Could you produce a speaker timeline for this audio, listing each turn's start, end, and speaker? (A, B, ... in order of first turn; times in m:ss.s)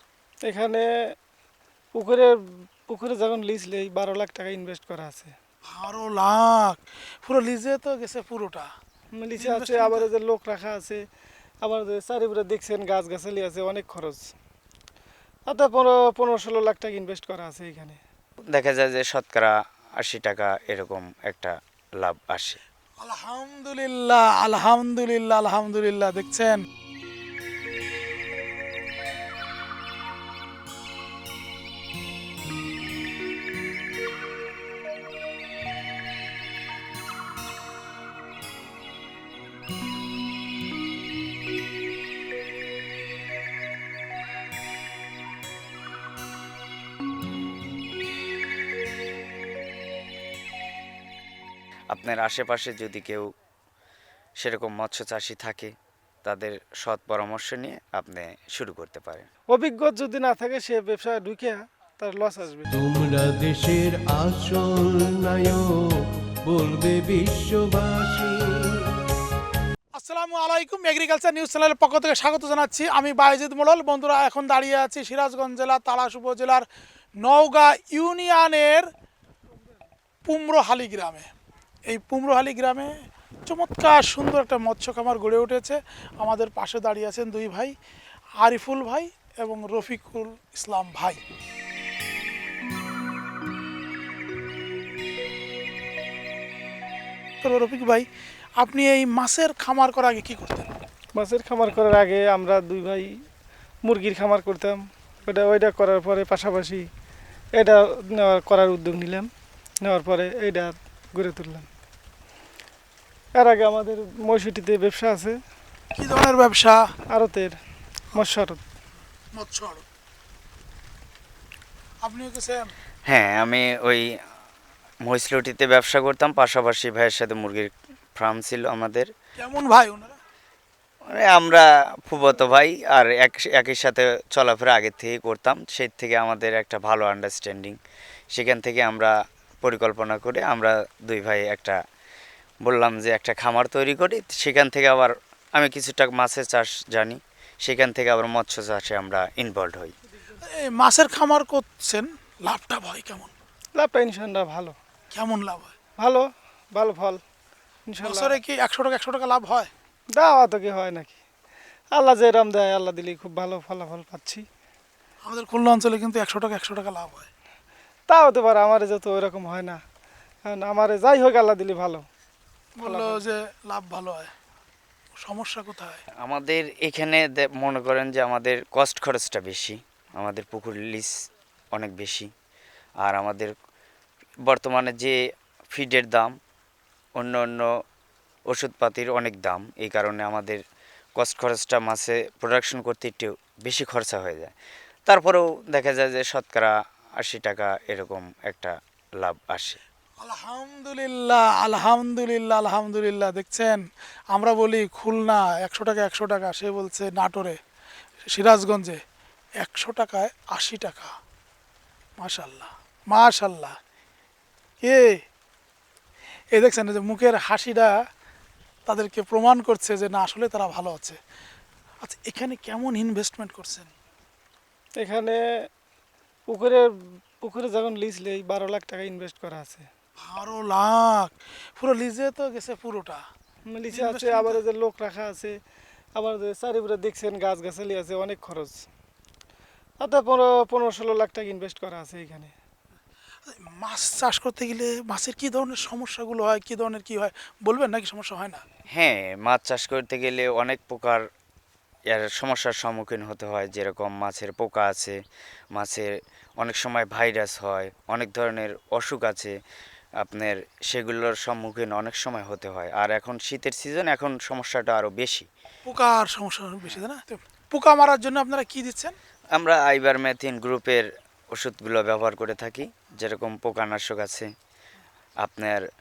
0:00.4-0:00.9 A
0:01.9-0:02.3 A
0:02.9-0:05.3 A
0:05.7-0:08.7 B
0:09.2-0:11.0 A
0:09.4-0:10.1 B
0:11.6-0:14.3 A
0:15.5-0:18.0 A
0:18.5-0:22.6 C
0:23.0-0:26.6 B
0:51.9-0:53.3 C
0:54.4-0:55.7 C
0:56.2-0:59.3 C
0:59.5-1:02.7 A
1:02.7-1:08.9 D
1:09.9-1:16.6 B
1:17.2-1:18.9 B
1:20.2-1:21.3 B
1:21.9-1:22.9 B
1:23.4-1:27.7 B
1:28.4-1:31.2 B
1:37.4-1:38.0 B
1:38.6-1:40.7 B
1:41.2-1:43.1 A
1:43.8-1:46.8 A
1:47.6-1:49.3 A
1:49.8-1:51.7 A
1:53.4-1:55.4 A
1:55.9-1:56.8 B
1:57.1-1:57.6 A
1:58.1-1:58.6 A
1:59.3-1:59.8 B
2:02.0-2:02.7 B
2:03.1-2:04.1 C
2:05.0-2:09.1 C
2:09.4-2:10.2 B
2:11.1-2:17.8 C
2:18.3-2:21.8 C
2:22.6-2:29.9 C
2:30.4-2:33.3 B
2:33.8-2:34.7 A
2:35.1-2:35.7 B
2:36.0-2:37.2 A
2:37.9-2:38.4 A
2:38.0-2:39.7 B
2:40.2-2:41.2 A
2:41.9-2:44.4 A
2:45.2-2:47.3 B
2:48.1-2:49.8 A
2:50.5-2:52.0 A
2:52.8-2:54.3 B
2:52.8-2:53.2 A
2:55.2-2:56.0 B
2:56.2-3:02.3 C
3:03.0-3:03.5 C
3:04.4-3:05.2 C
3:05.7-3:06.4 C
3:07.2-3:07.7 C
3:08.5-3:10.6 C
3:11.2-3:14.5 C
3:15.0-3:19.8 C
3:20.2-3:27.6 B
3:28.3-3:29.0 B
3:29.6-3:31.1 B
3:32.2-3:33.7 B
3:34.8-3:35.2 B
3:36.5-3:37.9 B
3:38.9-3:41.2 B
3:42.0-3:43.9 B
3:45.0-3:45.4 A
3:46.5-3:46.9 A
3:47.4-3:49.8 A
3:50.2-3:53.2 B
3:53.7-3:55.5 A
3:53.9-3:54.6 B
3:56.2-3:58.8 A
4:00.0-4:02.5 A
4:03.4-4:08.6 B
4:08.9-4:11.2 C
4:12.1-4:15.2 C
4:15.7-4:19.5 C
4:20.2-4:25.5 C
4:25.8-4:29.2 B
4:29.5-4:34.5 C
4:35.4-4:35.8 C